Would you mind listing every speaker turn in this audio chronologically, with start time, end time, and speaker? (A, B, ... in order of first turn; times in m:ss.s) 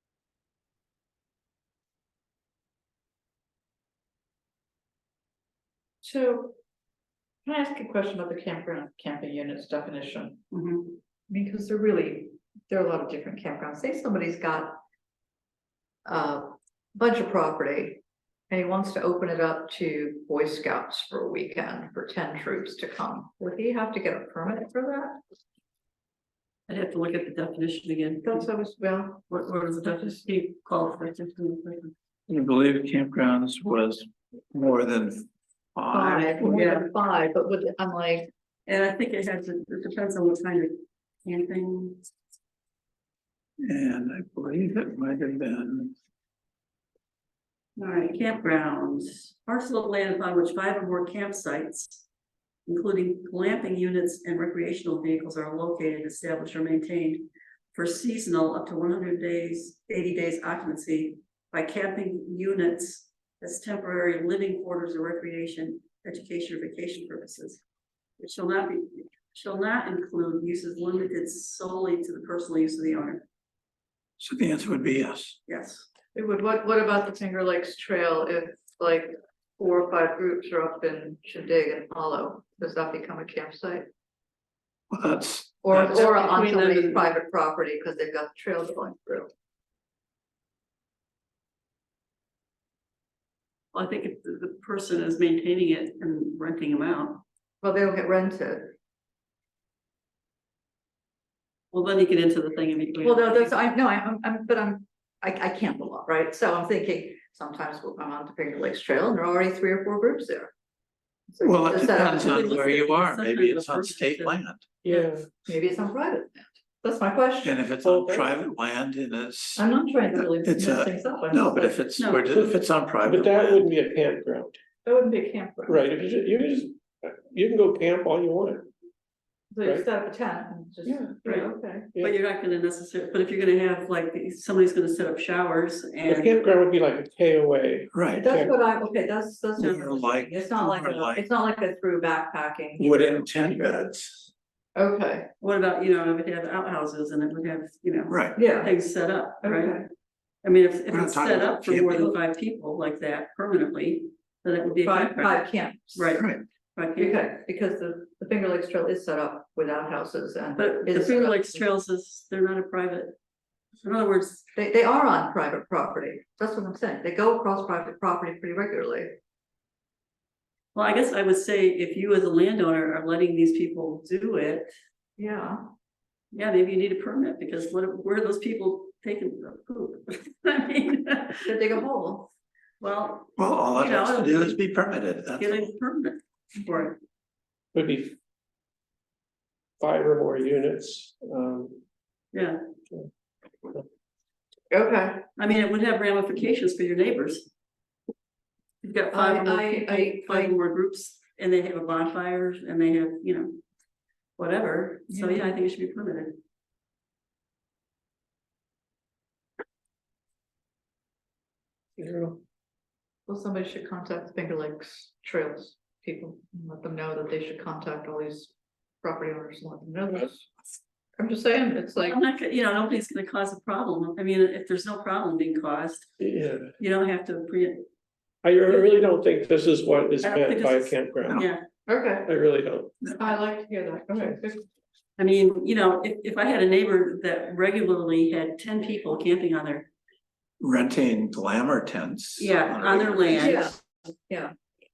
0:06.0-0:06.6 A
0:07.4-0:10.4 A
0:10.5-0:11.0 B
0:11.3-0:14.8 A
0:16.0-0:25.2 A
0:26.7-0:28.5 B
0:28.2-0:29.2 A
0:29.3-0:31.9 B
0:32.3-0:36.6 C
0:35.9-0:38.3 A
0:36.4-0:36.9 B
0:38.7-0:42.1 B
0:43.6-0:45.9 C
0:47.8-0:52.0 B
0:52.6-1:07.6 B
1:08.2-1:13.2 B
1:14.2-1:15.4 C
1:15.5-1:15.9 B
1:16.1-1:23.8 A
1:24.9-1:25.8 C
1:25.6-1:29.3 A
1:25.7-1:27.1 B
1:33.7-1:37.2 B
1:37.6-1:38.7 A
1:41.7-1:43.6 B
1:43.0-1:50.5 A
1:51.3-1:52.7 A
1:51.4-1:54.7 C
1:51.9-1:54.4 B
1:54.8-1:55.3 D
1:55.4-1:57.6 A
1:57.4-2:03.7 C
1:57.8-1:58.3 D
1:59.6-2:01.8 A
2:02.0-2:02.3 B
2:03.0-2:04.6 D
2:04.8-2:05.9 A
2:05.7-2:08.7 D
2:09.5-2:11.9 A
2:10.8-2:11.2 D
2:11.2-2:16.4 B
2:16.1-2:18.5 D
2:17.9-2:18.3 C
2:18.2-2:23.2 A
2:19.6-2:19.8 B
2:19.6-2:21.3 C
2:22.8-2:24.3 C
2:24.8-2:25.3 A
2:25.4-2:29.8 B
2:28.1-2:28.4 C
2:28.3-2:28.7 A
2:29.4-2:29.9 A
2:30.4-2:35.4 B
2:30.9-2:32.1 C
2:34.8-2:36.1 A
2:35.9-2:37.3 B
2:36.1-2:36.4 C
2:37.0-2:41.7 A
2:40.6-2:43.2 B
2:43.8-2:44.4 B
2:44.5-2:49.1 A
2:50.7-2:54.7 B
2:55.2-2:55.6 A
2:56.3-3:01.8 B
3:01.4-3:02.3 A
3:02.8-3:04.6 B
3:03.4-3:05.7 C
3:05.3-3:07.0 B
3:07.7-3:08.2 D
3:09.8-3:11.8 D
3:12.3-3:12.6 B
3:14.7-3:15.2 A
3:15.4-3:17.5 B
3:18.8-3:23.6 B
3:19.1-3:20.6 A
3:24.4-3:26.4 B
3:25.1-3:25.5 A
3:32.0-3:32.4 D
3:33.3-3:40.5 A
3:41.2-3:42.2 A
3:42.0-3:46.1 B
3:46.2-3:46.7 D
3:46.8-3:47.8 B
3:48.4-3:51.4 D
3:50.2-3:51.6 B
3:51.9-3:52.3 A
3:52.2-3:52.9 D
3:53.2-3:54.7 A
3:55.2-3:59.9 B
4:00.6-4:03.7 C
4:02.4-4:03.6 B
4:03.3-4:03.8 A